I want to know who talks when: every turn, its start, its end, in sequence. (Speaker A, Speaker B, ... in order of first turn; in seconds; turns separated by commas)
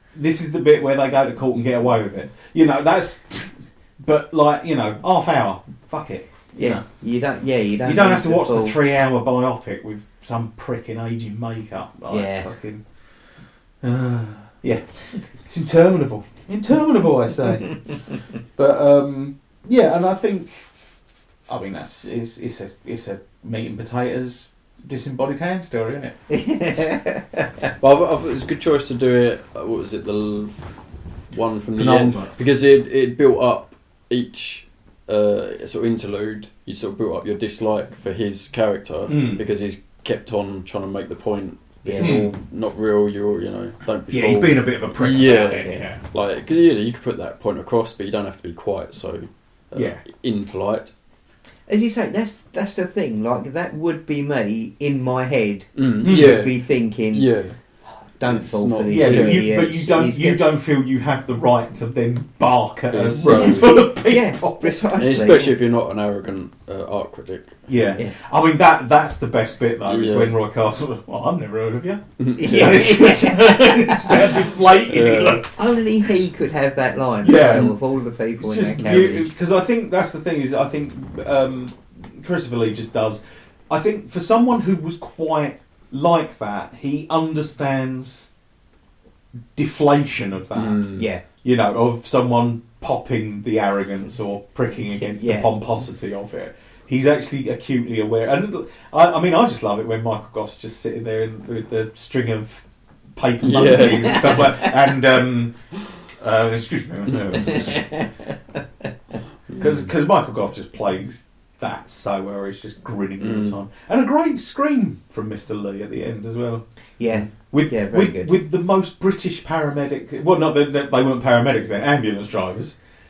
Speaker A: 0.1-6.8, Speaker B: 6.5-8.8, Speaker A: 7.8-20.7, Speaker B: 12.1-12.5, Speaker A: 21.5-26.2, Speaker B: 26.3-27.4, Speaker C: 27.8-50.9, Speaker A: 31.8-32.4, Speaker A: 39.1-39.4, Speaker B: 41.8-42.3, Speaker A: 42.0-42.3, Speaker A: 44.1-46.0, Speaker A: 49.7-50.0, Speaker B: 51.7-60.4, Speaker C: 55.8-57.6, Speaker A: 56.0-56.4, Speaker C: 58.2-59.5, Speaker A: 58.9-64.8, Speaker C: 62.9-63.9, Speaker B: 63.2-65.5, Speaker C: 64.9-68.0, Speaker A: 67.7-76.1, Speaker C: 69.8-70.3, Speaker C: 72.2-72.9, Speaker B: 72.4-74.1, Speaker C: 74.9-75.5, Speaker B: 75.5-79.3, Speaker A: 77.2-77.8, Speaker A: 78.4-88.3, Speaker A: 89.5-108.1, Speaker C: 90.5-91.1, Speaker B: 91.0-91.2, Speaker B: 95.0-95.5, Speaker C: 103.4-104.7, Speaker B: 107.5-108.0, Speaker C: 109.5-109.9, Speaker A: 109.5-116.7, Speaker C: 113.2-113.5, Speaker B: 117.0-118.3, Speaker A: 117.2-122.8